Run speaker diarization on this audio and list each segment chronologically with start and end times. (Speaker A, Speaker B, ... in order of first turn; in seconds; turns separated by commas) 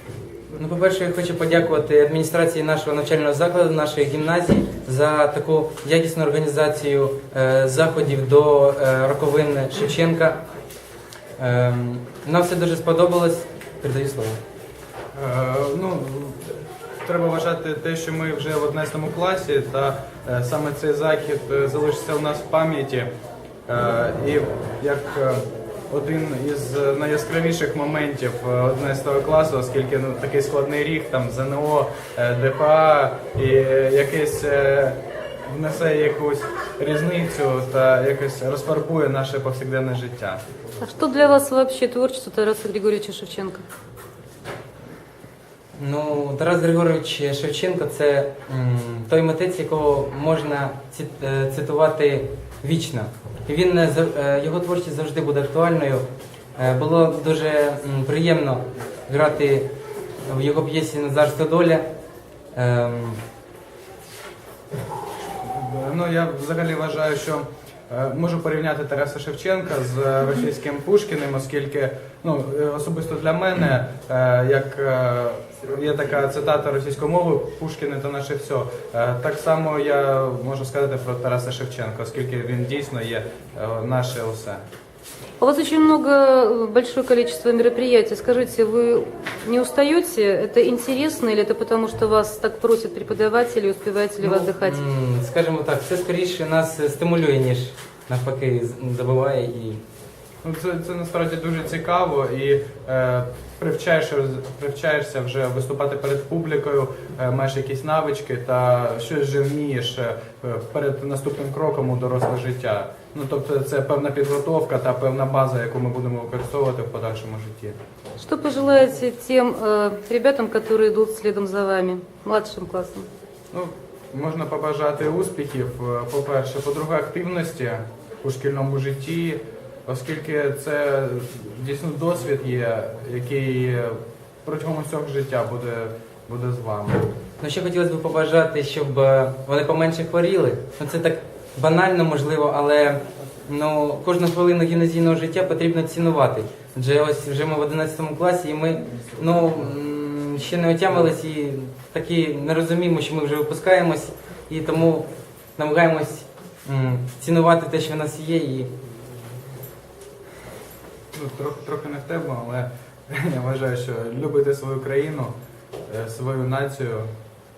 Speaker A: 0.6-10.4, Speaker A: 11.4-14.4, Speaker B: 15.1-16.5, Speaker B: 17.0-23.1, Speaker B: 23.7-40.4, Speaker C: 40.8-43.6, Speaker A: 45.8-59.7, Speaker A: 60.3-61.8, Speaker A: 62.5-63.2, Speaker B: 65.4-84.6, Speaker C: 85.4-94.8, Speaker A: 94.2-99.8, Speaker B: 100.4-117.8, Speaker C: 118.2-123.1, Speaker B: 123.5-137.1, Speaker A: 137.4-158.7, Speaker B: 161.1-165.3, Speaker B: 165.9-167.1